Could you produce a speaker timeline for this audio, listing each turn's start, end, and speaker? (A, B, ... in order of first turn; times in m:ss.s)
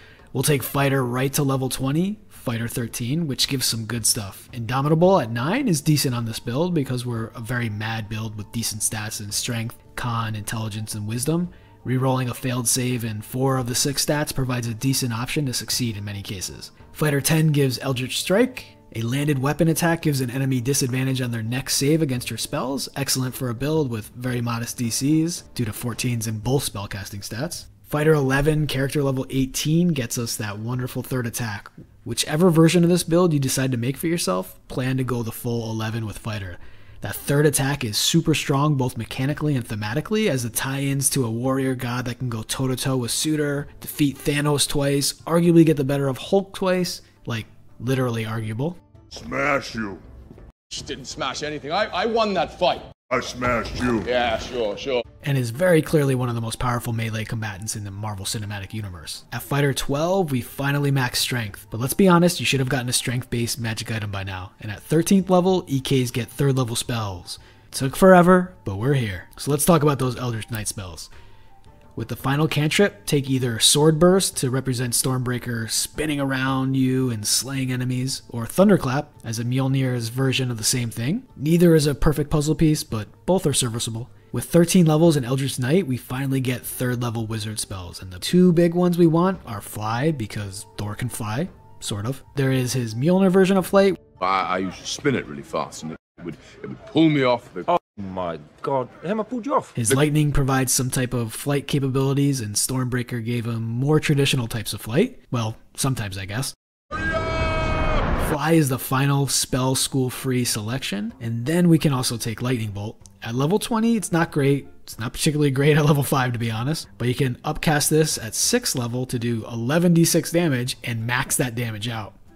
0:00.3-0:48.8 A
0:49.1-0:50.0 B
0:50.7-0:52.8 C
0:53.1-0:54.1 B
0:54.1-0:55.0 C
0:55.2-1:11.1 A
1:12.0-1:34.0 A
1:34.2-1:37.7 C
1:37.7-1:39.8 D
1:39.8-1:46.5 A
1:48.2-2:02.1 A